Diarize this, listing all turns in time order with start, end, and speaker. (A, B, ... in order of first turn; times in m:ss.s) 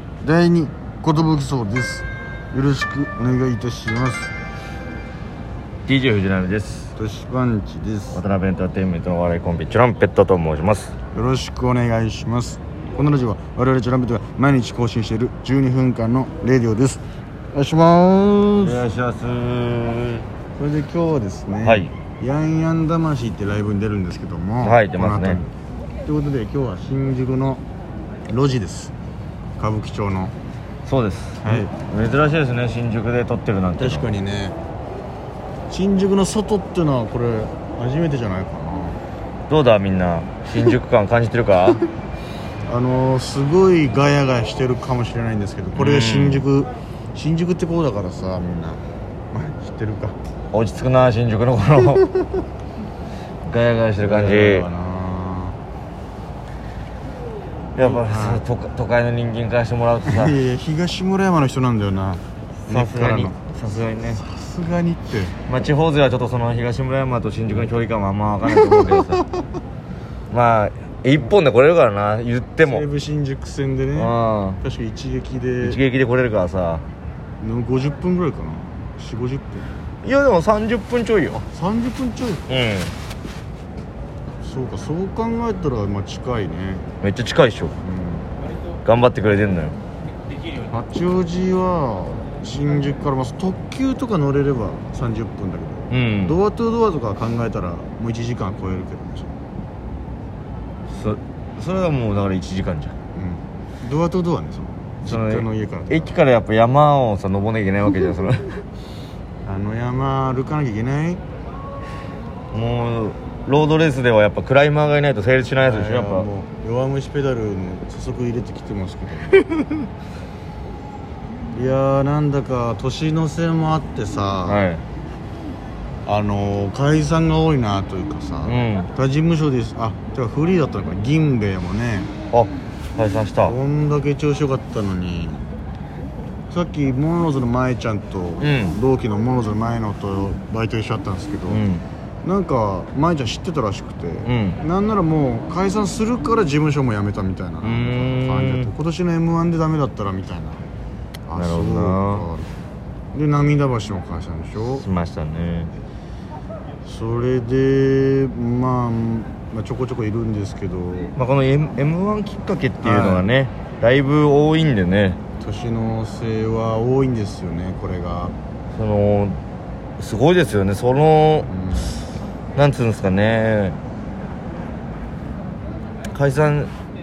0:00.2-0:04.3 A
0:05.9-0:06.9 B
0:07.0-0:08.2 A
0:08.1-0:10.9 B
0:11.1-0:17.0 A
0:17.5-0:18.8 A
0:18.6-0:20.2 B
0:20.6-0:25.5 A
0:21.6-0:21.9 B
0:24.6-0:25.4 B
0:26.0-0:27.6 A
0:28.3-0:28.9 A
0:29.6-0:30.3 A
0:30.8-0:34.0 B
0:31.4-0:31.7 A
0:33.8-0:34.6 A
0:35.7-0:39.0 A
0:39.5-0:41.8 B
0:42.6-0:50.2 A
0:45.8-0:46.5 B
0:50.5-0:52.0 B
0:51.8-0:52.4 A
0:53.5-0:54.7 B
0:54.0-0:55.6 A
0:57.7-1:00.4 B
0:57.8-0:58.4 A
1:00.0-1:03.4 A
1:02.7-1:04.2 B
1:04.1-1:05.3 A
1:05.5-1:09.2 B
1:08.4-1:09.4 A
1:10.3-1:12.8 B
1:12.6-1:15.8 A
1:13.9-1:14.6 B
1:15.6-1:16.8 B
1:17.4-1:19.7 A
1:20.0-1:21.4 B
1:21.5-1:22.5 A
1:22.5-1:22.9 B
1:24.4-1:26.8 A
1:27.0-1:27.7 B
1:27.8-1:28.3 A
1:28.8-1:29.8 B
1:30.7-1:39.3 A
1:35.9-1:36.4 B
1:40.9-1:42.9 B
1:43.1-1:46.2 A
1:45.0-1:48.6 B
1:49.4-1:51.2 A
1:52.5-1:56.3 B
1:55.6-1:59.4 A
1:59.5-1:59.8 B
2:01.5-2:04.6 A
2:04.4-2:04.8 B
2:06.0-2:12.1 A
2:08.4-2:08.9 B
2:12.3-2:13.6 B
2:13.4-2:15.4 A
2:16.5-2:21.6 A
2:18.4-2:18.8 B
2:21.5-2:21.8 B
2:22.2-2:30.6 A
2:24.2-2:24.6 B
2:27.6-2:28.7 B
2:31.3-2:32.5 A
2:31.4-2:32.2 B
2:33.1-2:34.8 A
2:34.8-2:35.7 B
2:36.8-2:41.1 A
2:41.2-2:45.2 B
2:42.8-2:43.3 A
2:45.4-2:48.3 A
2:48.7-2:49.4 B
2:50.0-2:51.5 B
2:51.5-2:52.0 A
2:52.6-2:53.8 B
2:56.1-2:56.7 B